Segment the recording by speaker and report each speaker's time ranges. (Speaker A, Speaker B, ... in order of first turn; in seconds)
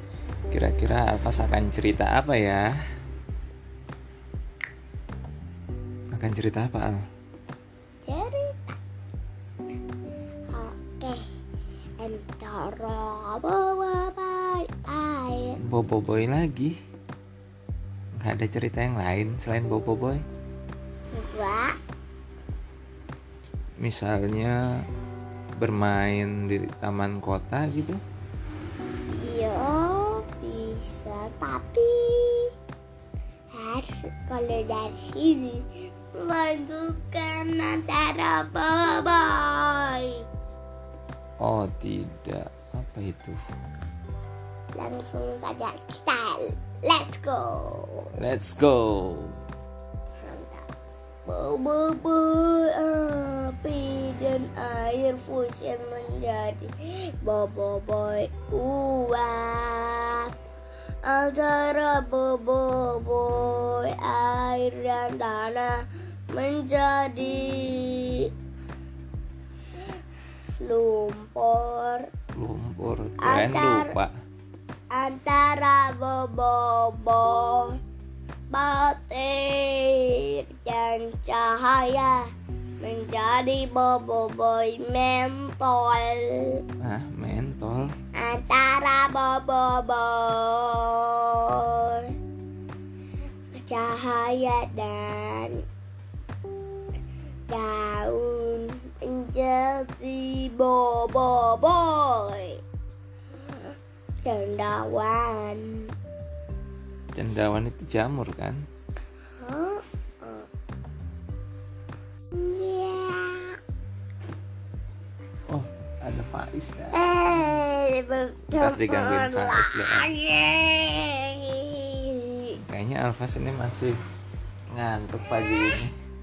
Speaker A: 0.5-2.7, 6.1-7.0, 15.6-16.7, 18.1-20.2, 23.8-24.7, 25.6-28.0, 41.4-43.4, 48.2-49.4, 72.3-74.1, 86.8-87.9, 107.1-108.6, 115.5-117.6, 118.5-120.1, 122.7-124.0, 124.7-125.9
Speaker B: 8.0-8.8, 10.5-11.2, 12.0-15.6, 21.1-21.8, 29.1-32.5, 33.5-40.2, 44.7-48.1, 50.2-50.7, 51.3-60.3, 61.0-68.3, 70.6-72.1, 73.2-74.0, 74.9-77.8, 78.5-82.3, 82.8-86.6, 88.2-92.2, 93.5-95.6, 97.5-102.6, 103.5-105.9, 109.4-110.5, 112.3-113.6, 116.9-122.6